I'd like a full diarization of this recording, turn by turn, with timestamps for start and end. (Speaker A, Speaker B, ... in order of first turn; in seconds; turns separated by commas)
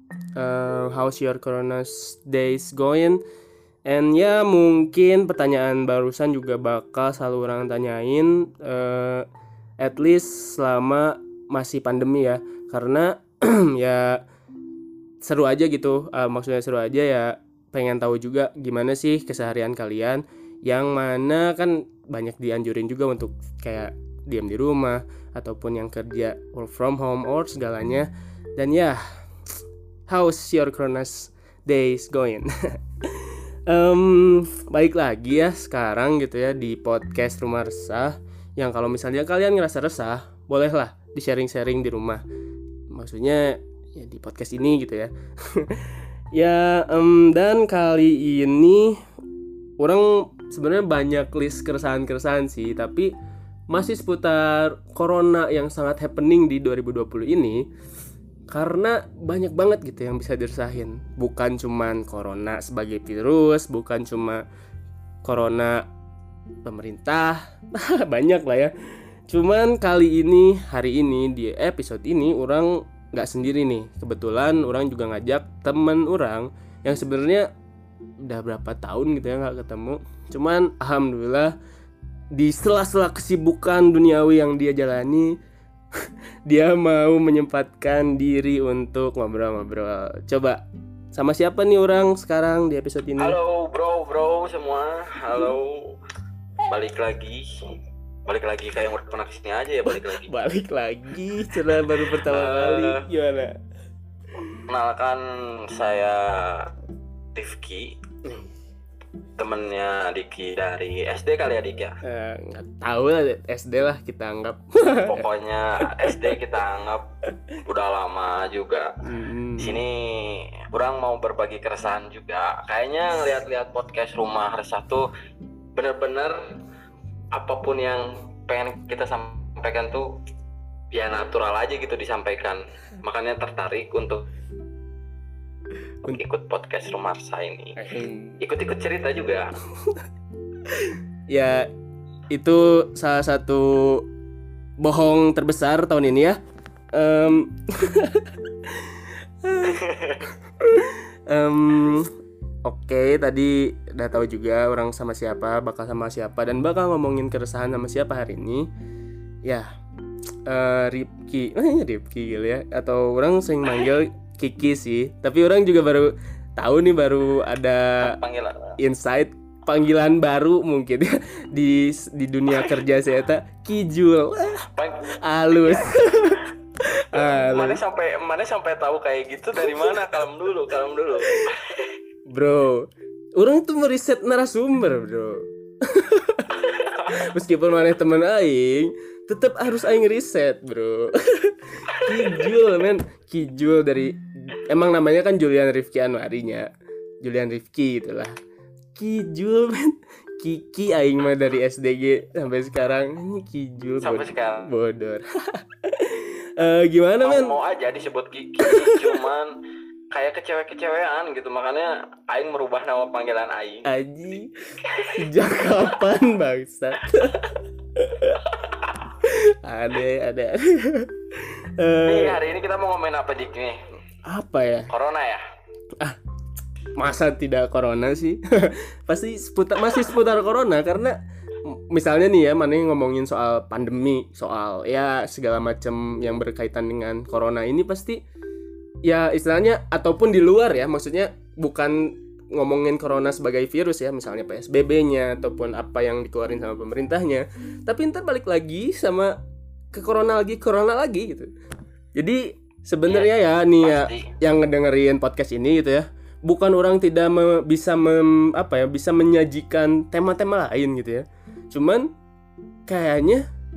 Speaker A: 0.3-3.2, Speaker A: 3.9-9.3, Speaker A: 9.8-14.2, Speaker A: 15.2-29.0, Speaker A: 30.1-32.5, Speaker A: 33.0-42.2, Speaker A: 42.9-49.0, Speaker A: 49.8-53.1, Speaker A: 53.7-57.6, Speaker A: 58.5-64.4, Speaker A: 65.2-65.8, Speaker A: 66.6-68.7, Speaker A: 69.3-77.5, Speaker A: 78.2-81.5, Speaker A: 82.3-85.3, Speaker A: 86.0-93.4, Speaker B: 93.2-95.9, Speaker B: 96.6-97.5, Speaker B: 98.3-100.3, Speaker A: 99.8-103.6, Speaker B: 102.0-103.0, Speaker A: 104.3-104.6, Speaker B: 104.7-106.7, Speaker B: 107.3-107.9, Speaker A: 108.2-108.5, Speaker B: 109.4-112.0, Speaker A: 112.0-115.3, Speaker B: 115.0-117.0, Speaker A: 115.8-116.4, Speaker B: 117.6-118.9, Speaker A: 119.0-119.8, Speaker B: 119.6-125.1, Speaker B: 125.8-126.4, Speaker B: 127.3-130.1, Speaker B: 130.9-134.2, Speaker B: 136.1-137.8, Speaker A: 137.8-138.4, Speaker B: 138.4-139.5, Speaker A: 139.7-140.0, Speaker A: 140.7-141.7, Speaker A: 142.3-144.1, Speaker A: 144.8-146.4, Speaker A: 146.9-152.1, Speaker B: 149.6-150.2, Speaker A: 152.7-158.7, Speaker A: 160.4-168.2, Speaker B: 168.0-168.8, Speaker A: 168.8-174.7, Speaker B: 172.5-172.8, Speaker B: 174.7-176.4, Speaker A: 175.2-177.8, Speaker B: 177.1-181.9, Speaker A: 179.6-180.1, Speaker A: 182.3-186.6, Speaker B: 186.6-187.1, Speaker A: 187.1-196.7, Speaker B: 191.9-192.6, Speaker A: 197.2-198.3, Speaker A: 198.9-207.6, Speaker B: 204.0-204.7, Speaker B: 207.2-209.5, Speaker A: 208.6-209.2, Speaker B: 210.1-213.9, Speaker A: 213.8-218.4, Speaker B: 214.8-215.1, Speaker B: 218.5-219.0, Speaker A: 219.2-222.4, Speaker B: 222.1-223.8, Speaker A: 224.2-224.9, Speaker B: 224.9-225.4, Speaker A: 226.9-238.2, Speaker A: 239.0-249.3, Speaker A: 249.9-251.5, Speaker A: 252.1-262.1, Speaker B: 253.1-254.3, Speaker A: 262.9-263.4